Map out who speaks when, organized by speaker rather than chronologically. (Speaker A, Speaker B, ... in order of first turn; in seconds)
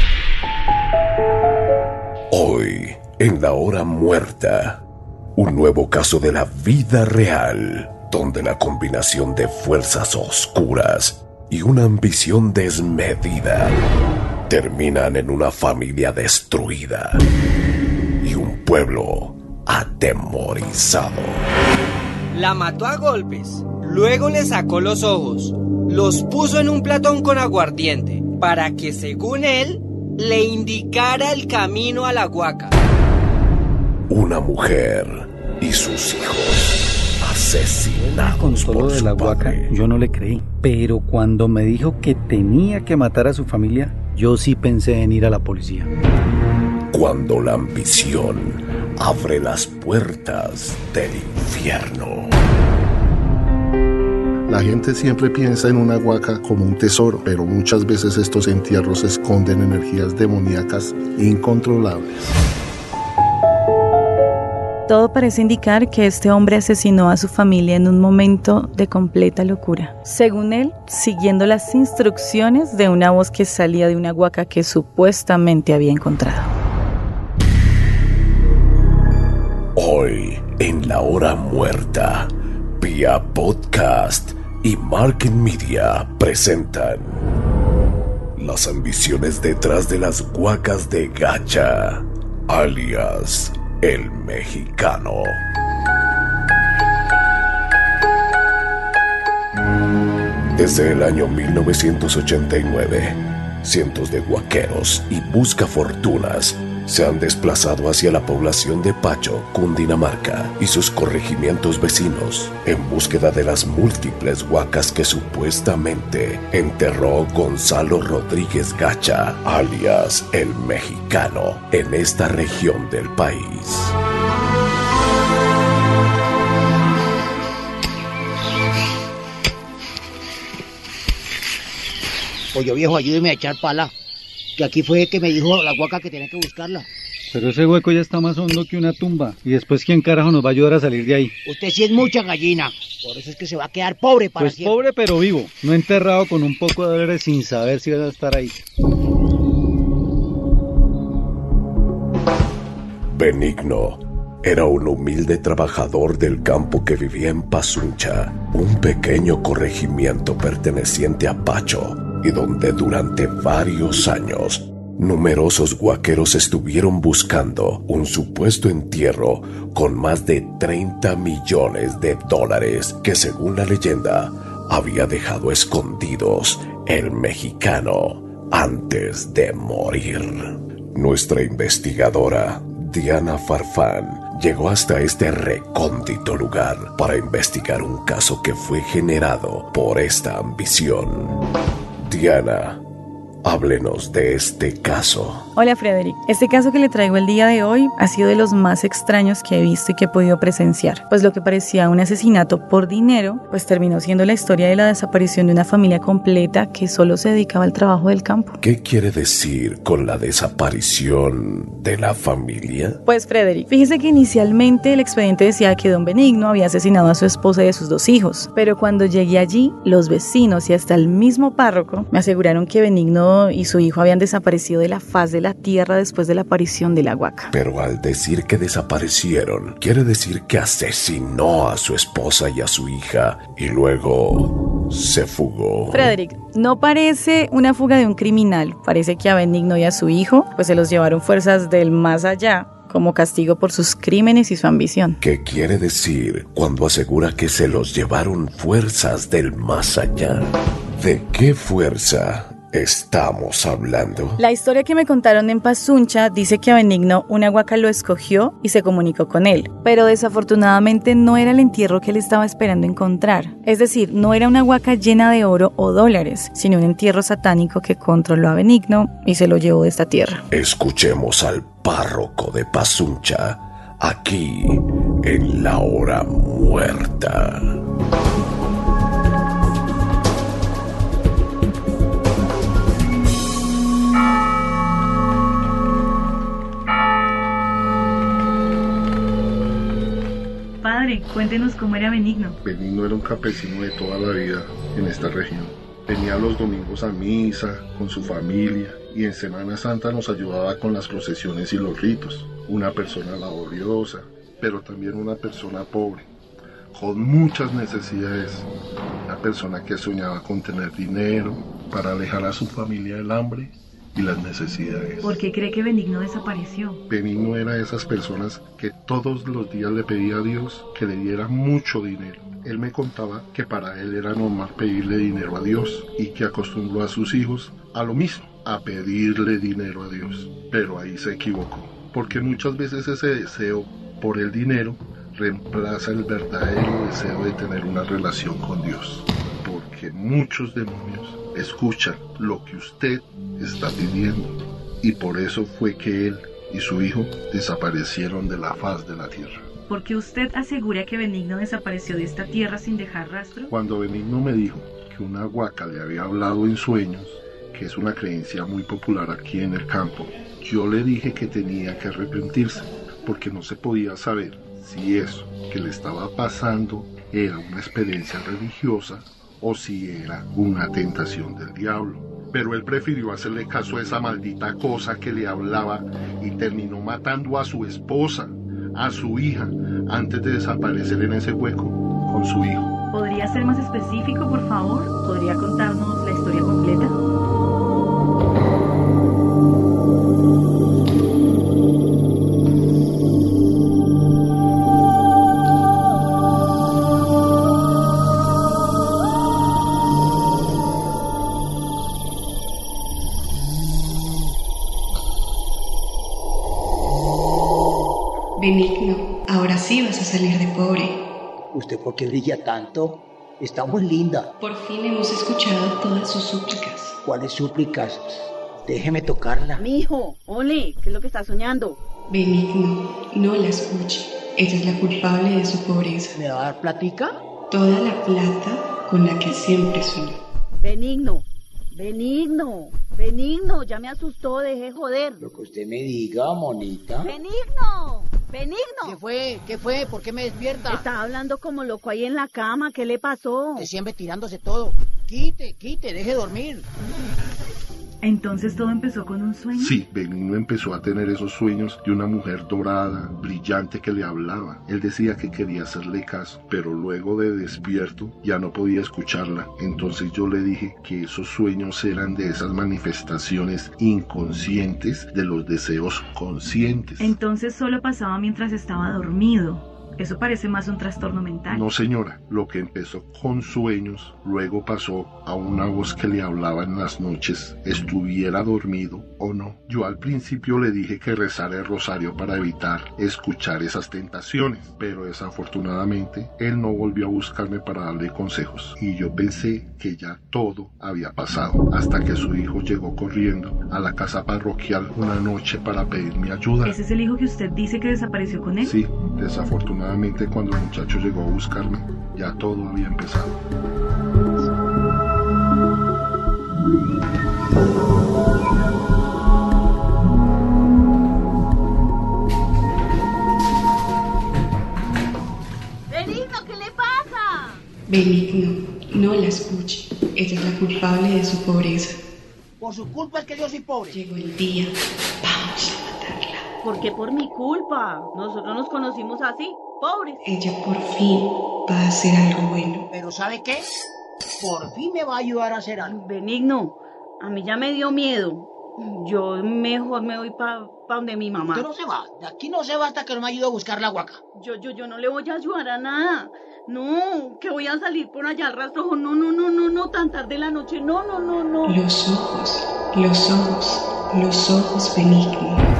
Speaker A: 2.3-4.8, 5.3-13.8, 14.5-17.2, 18.2-21.5, 34.1-39.7, 46.9-52.3, 79.8-87.2, 88.3-95.4, 100.5-123.9, 153.1-191.3, 192.0-192.8, 193.4-195.4, 208.6-213.0, 227.5-236.1, 245.2-254.4, 270.5-277.7
Speaker B: 22.3-32.7
Speaker C: 38.0-45.9, 137.3-141.3, 144.4-148.6
Speaker D: 54.5-62.4, 292.6-306.3, 306.9-308.7, 309.2-315.4, 317.1-349.6, 353.7-382.9, 449.7-467.4, 471.7-497.0, 498.8-503.6
Speaker E: 64.9-76.5, 195.6-208.6, 213.1-227.5, 235.9-245.2, 254.4-270.4, 290.8-292.6, 315.2-317.0, 349.9-353.7, 383.1-387.1, 448.2-450.0, 467.2-471.9, 496.8-498.9
Speaker F: 132.5-133.9, 134.6-136.9, 141.4-144.8, 411.7-414.5, 417.2-419.8, 426.3-427.3, 435.4-437.3, 439.0-441.1, 443.8-446.9, 522.8-524.2, 533.1-533.9, 534.6-536.1, 541.6-544.4
Speaker G: 408.6-411.1, 414.6-417.2, 422.3-426.3, 427.7-430.4, 518.1-522.2, 524.1-526.6, 530.4-533.0, 551.9-555.9
Speaker H: 419.8-422.0, 430.8-435.5, 437.2-439.2, 440.9-443.9, 516.1-517.8, 526.8-530.4, 536.1-541.9, 544.5-552.0